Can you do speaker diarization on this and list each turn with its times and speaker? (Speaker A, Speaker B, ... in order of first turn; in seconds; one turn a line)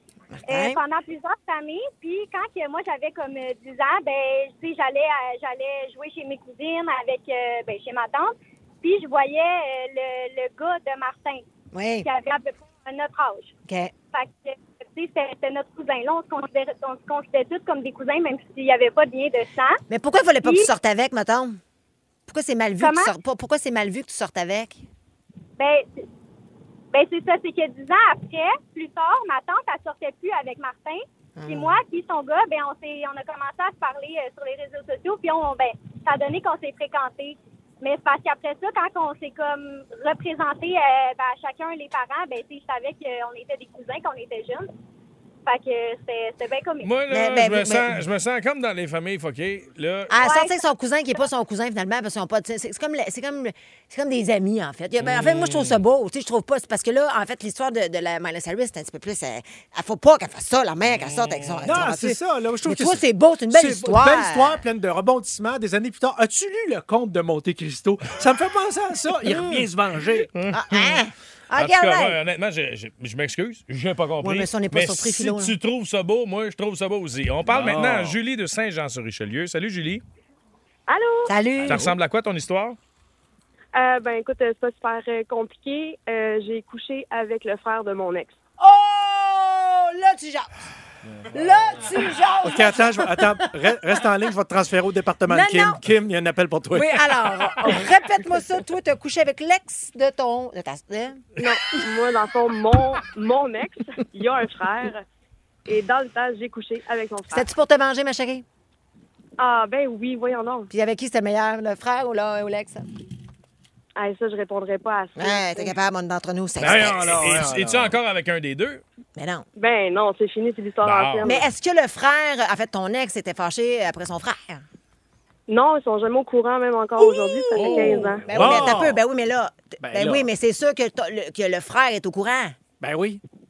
Speaker A: 0.3-0.8
Speaker B: 0.5-11.4
Speaker A: 11.7-12.1
Speaker B: 12.0-13.5
Speaker B: 14.1-19.8
Speaker A: 19.9-21.6
Speaker B: 20.4-20.7
Speaker A: 22.3-24.9
Speaker B: 22.8-23.1
Speaker B: 25.6-26.1
Speaker B: 26.9-44.7
Speaker A: 31.4-31.8
Speaker B: 45.5-46.9
Speaker C: 46.8-50.1
Speaker A: 47.1-48.0
Speaker A: 50.1-64.6
Speaker B: 50.2-50.5
Speaker C: 55.0-55.8
Speaker C: 60.9-61.9
Speaker D: 61.6-70.3
Speaker A: 69.2-69.7
Speaker C: 70.3-71.0
Speaker A: 70.5-72.2
Speaker C: 71.5-80.0
Speaker A: 74.2-75.6
Speaker D: 77.5-78.2
Speaker E: 80.9-81.3
Speaker A: 81.3-81.9
Speaker D: 81.6-82.0
Speaker C: 81.7-82.8
Speaker E: 83.7-88.4
Speaker A: 88.6-90.5
Speaker A: 91.3-94.1
Speaker D: 92.4-97.8
Speaker A: 95.3-95.8
Speaker A: 96.7-101.2
Speaker E: 101.4-105.0
Speaker E: 105.7-107.5
Speaker A: 107.3-108.5
Speaker E: 109.4-110.7
Speaker A: 110.7-112.9
Speaker E: 114.0-115.8
Speaker A: 115.2-117.2
Speaker D: 116.6-118.0
Speaker C: 116.6-118.8
Speaker A: 119.2-119.5
Speaker E: 119.6-121.5
Speaker C: 120.8-121.3
Speaker A: 121.2-124.6
Speaker E: 125.5-128.3
Speaker A: 127.0-132.6
Speaker C: 127.5-128.8
Speaker D: 128.3-129.0
Speaker D: 129.8-130.3
Speaker D: 132.8-133.2